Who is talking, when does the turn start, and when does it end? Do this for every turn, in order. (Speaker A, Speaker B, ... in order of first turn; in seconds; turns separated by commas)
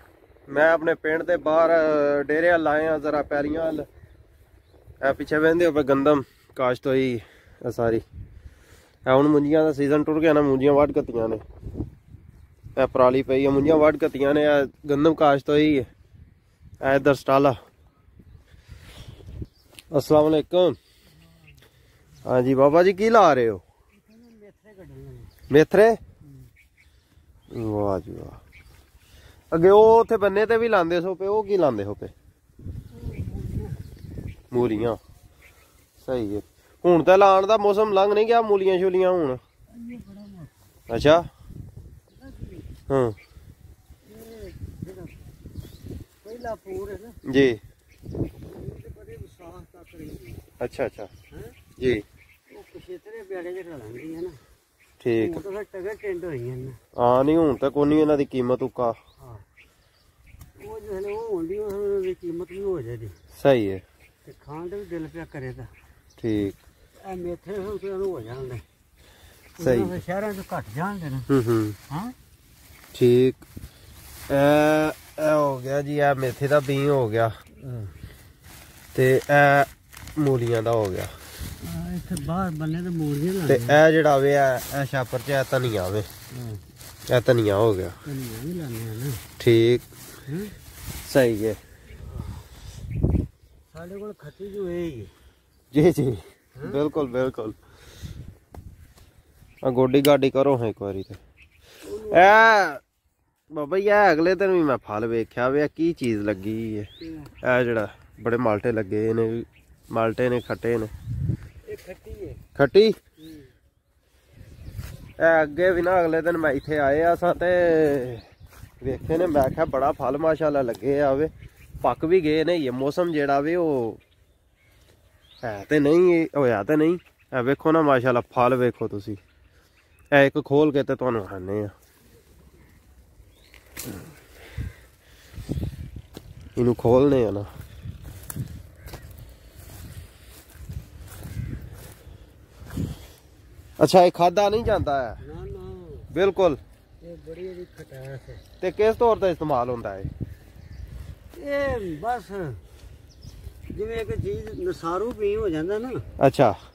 Speaker A: 0.5-3.9, Speaker A: 5.0-8.0, Speaker A: 9.1-11.4, Speaker A: 12.8-15.9, Speaker A: 16.8-17.6, Speaker A: 19.9-20.8, Speaker A: 22.2-23.6, Speaker B: 24.0-25.3, Speaker A: 25.5-26.0, Speaker A: 27.5-28.4, Speaker A: 29.5-32.1, Speaker B: 32.9-33.8, Speaker A: 34.5-35.0, Speaker A: 36.0-39.4, Speaker B: 39.7-40.6, Speaker A: 40.9-41.3, Speaker B: 42.2-42.7, Speaker A: 42.9-43.2, Speaker B: 44.0-45.3, Speaker B: 46.2-47.2, Speaker A: 47.3-47.6, Speaker B: 48.5-50.5, Speaker A: 50.6-51.1, Speaker B: 51.3-51.6, Speaker A: 51.8-52.0, Speaker B: 52.5-54.4, Speaker A: 55.0-55.4, Speaker B: 55.2-56.8, Speaker A: 57.0-59.0, Speaker B: 60.6-63.2, Speaker A: 63.4-63.8, Speaker B: 64.2-65.7, Speaker A: 66.2-66.6, Speaker B: 67.0-68.6, Speaker B: 69.6-71.3, Speaker A: 69.6-70.0, Speaker A: 71.3-71.8, Speaker A: 72.9-73.4, Speaker A: 74.3-77.3, Speaker B: 77.6-77.9, Speaker A: 78.9-81.1, Speaker B: 81.6-83.8, Speaker A: 83.5-86.1, Speaker B: 86.3-86.6, Speaker A: 87.1-88.0, Speaker B: 88.0-89.2, Speaker A: 89.4-89.9, Speaker B: 90.3-90.5, Speaker A: 91.1-91.6, Speaker B: 92.0-92.5, Speaker B: 93.7-95.1, Speaker A: 95.7-97.6, Speaker B: 96.6-96.8, Speaker A: 99.6-101.2, Speaker B: 101.8-102.5, Speaker A: 102.1-102.8, Speaker A: 103.5-106.9, Speaker B: 107.0-107.3, Speaker A: 107.4-110.9, Speaker B: 111.7-112.4, Speaker A: 112.6-113.0, Speaker B: 113.2-113.5, Speaker A: 115.2-118.3, Speaker A: 118.8-121.3, Speaker A: 121.8-124.0, Speaker A: 125.4-129.2, Speaker A: 130.1-131.7, Speaker A: 136.6-137.5, Speaker A: 143.8-145.2, Speaker B: 145.2-146.1, Speaker A: 146.1-146.6, Speaker B: 147.0-148.4, Speaker A: 148.6-150.1, Speaker B: 151.3-152.6, Speaker B: 153.7-156.1, Speaker A: 156.2-156.6